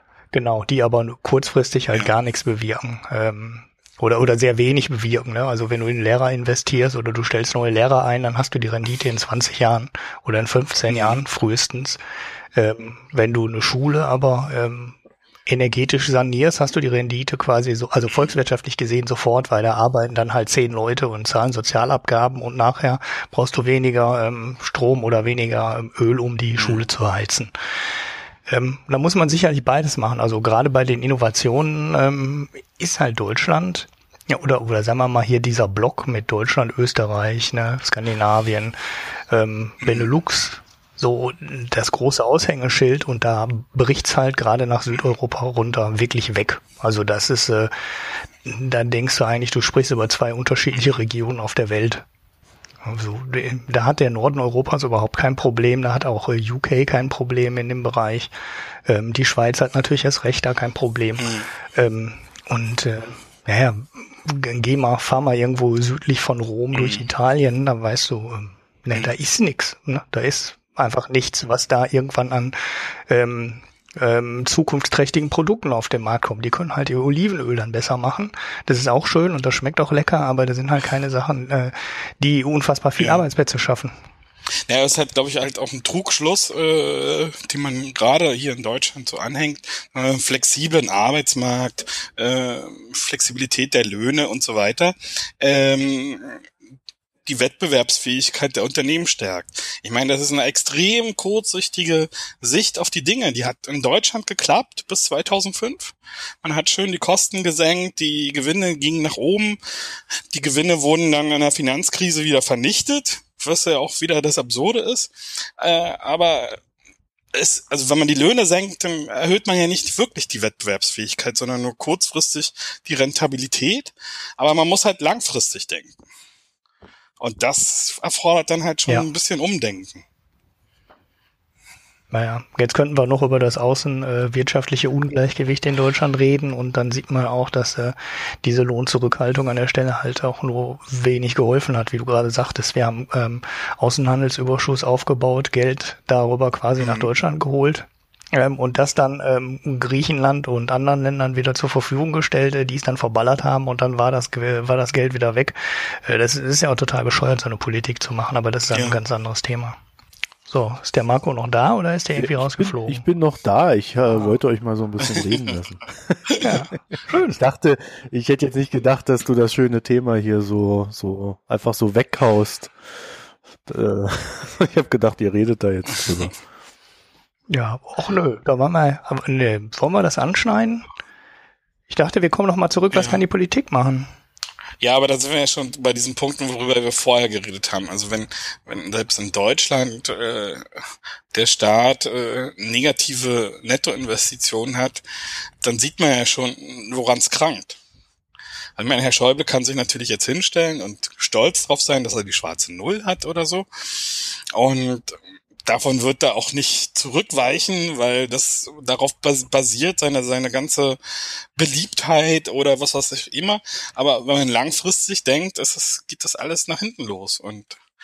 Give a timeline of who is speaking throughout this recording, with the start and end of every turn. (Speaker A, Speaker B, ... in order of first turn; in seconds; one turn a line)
Speaker A: 0.3-12.0
Speaker B: 10.9-11.2
Speaker A: 12.5-27.5
Speaker B: 26.6-26.8
Speaker A: 28.5-38.8
Speaker A: 39.3-47.7
Speaker B: 39.8-40.1
Speaker A: 48.4-52.0
Speaker A: 52.8-58.3
Speaker A: 58.9-83.9
Speaker B: 61.2-61.5
Speaker B: 66.7-67.1
Speaker B: 83.0-83.2
Speaker B: 84.7-96.4
Speaker B: 97.2-109.6
Speaker B: 110.3-116.6
Speaker B: 117.3-125.9
Speaker B: 127.2-130.0
Speaker A: 132.1-159.8
Speaker B: 146.8-147.1
Speaker B: 158.7-159.0
Speaker A: 160.5-163.0
Speaker C: 162.2-166.4
Speaker A: 166.4-167.4
Speaker C: 167.1-172.7
Speaker C: 173.6-176.4
Speaker A: 177.5-180.8
Speaker A: 181.9-184.1
Speaker B: 182.9-183.2
Speaker B: 184.8-190.7
Speaker B: 191.3-195.0
Speaker B: 195.6-197.8
Speaker B: 198.8-211.0
Speaker B: 211.6-217.8